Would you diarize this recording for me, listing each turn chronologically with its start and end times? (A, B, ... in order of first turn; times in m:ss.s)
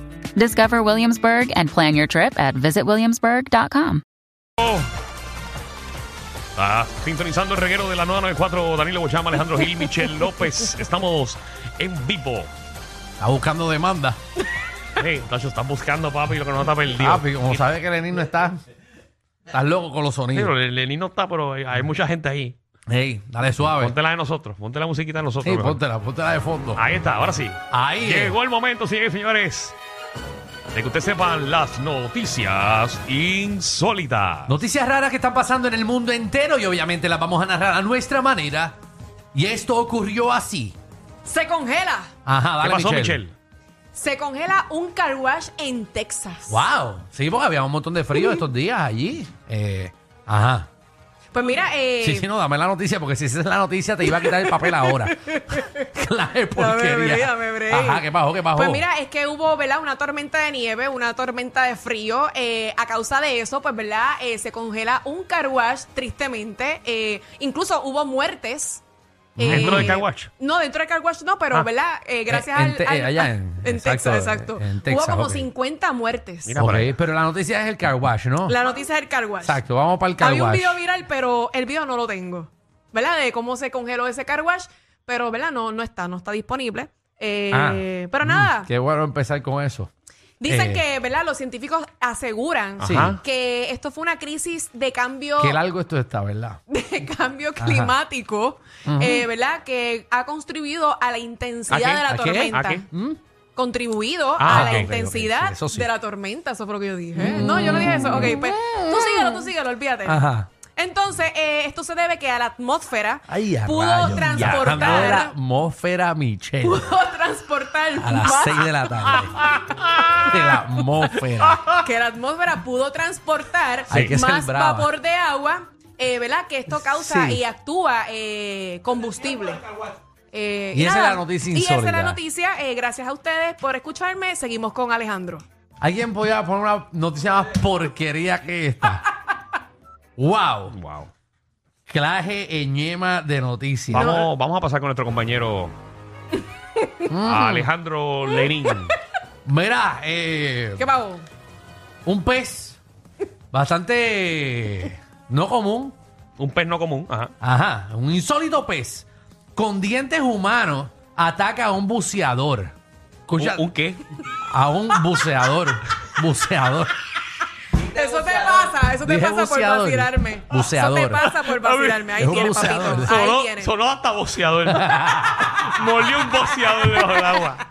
0:00.4-0:04.0 A
0:04.6-0:04.9 B
0:06.6-0:12.5 B
0:13.2-0:14.2 C
0:15.0-0:17.7 B
0:17.0-0:18.6 C
0:19.5-0:20.5 C
0:20.3-0:22.6 B
0:22.9-0:24.0 C
0:23.7-0:25.8 B
0:25.4-0:26.8 C
0:26.8-0:29.8 B
0:27.7-0:28.4 C
0:30.7-0:34.6 B
0:34.5-0:38.8 C
0:39.3-0:40.8 C
0:41.2-0:42.1 D
0:42.2-0:43.2 C
0:42.6-0:43.3 B
0:43.9-0:46.6 D
0:46.5-0:50.7 C
0:51.3-0:52.3 D
0:52.0-0:58.9 C
0:54.2-0:55.9 D
0:56.6-1:08.8 D
1:09.4-1:16.6 D
1:09.4-1:10.0 C
1:09.4-1:10.3 B
1:12.3-1:15.5 C
1:16.4-1:17.0 B
1:16.6-1:18.6 C
1:18.5-1:19.6 D
1:19.4-1:20.8 C
1:20.2-1:28.7 D
1:27.5-1:29.9 C
1:30.4-1:35.6 D
1:30.4-1:30.8 C
1:32.8-1:33.2 C
1:32.8-1:33.2 B
1:35.4-1:36.6 C
1:36.7-1:42.8 D
1:37.6-1:38.0 C
1:38.9-1:39.3 C
1:41.7-1:42.9 B
1:42.1-1:43.2 C
1:43.6-1:55.3 D
1:44.4-1:44.9 B
1:44.4-1:45.9 C
1:47.2-1:49.5 C
1:50.0-1:50.5 C
1:53.3-1:57.0 C
1:54.2-1:55.2 B
1:56.6-2:00.3 D
1:58.0-2:01.6 C
2:01.8-2:09.7 D
2:03.9-2:04.9 C
2:03.9-2:04.2 B
2:06.7-2:07.4 C
2:10.3-2:15.4 D
2:10.7-2:12.2 C
2:15.8-2:19.1 C
2:20.2-2:20.8 C
2:20.7-2:21.1 B
2:21.9-2:24.2 C
2:23.9-2:25.8 B
2:23.9-2:24.3 D
2:27.1-2:27.7 C
2:27.2-2:29.0 B
2:29.4-2:30.9 C
2:30.8-2:31.3 D
2:32.0-2:32.8 C
2:33.5-2:36.0 C
2:36.4-2:37.3 B
2:37.4-2:42.8 C
2:43.3-2:43.6 C
2:43.4-2:44.0 B
2:44.4-2:46.9 C
2:47.8-2:53.7 D
2:49.0-2:51.3 C
2:51.3-2:57.6 B
2:52.1-2:53.2 C
2:54.6-2:55.5 C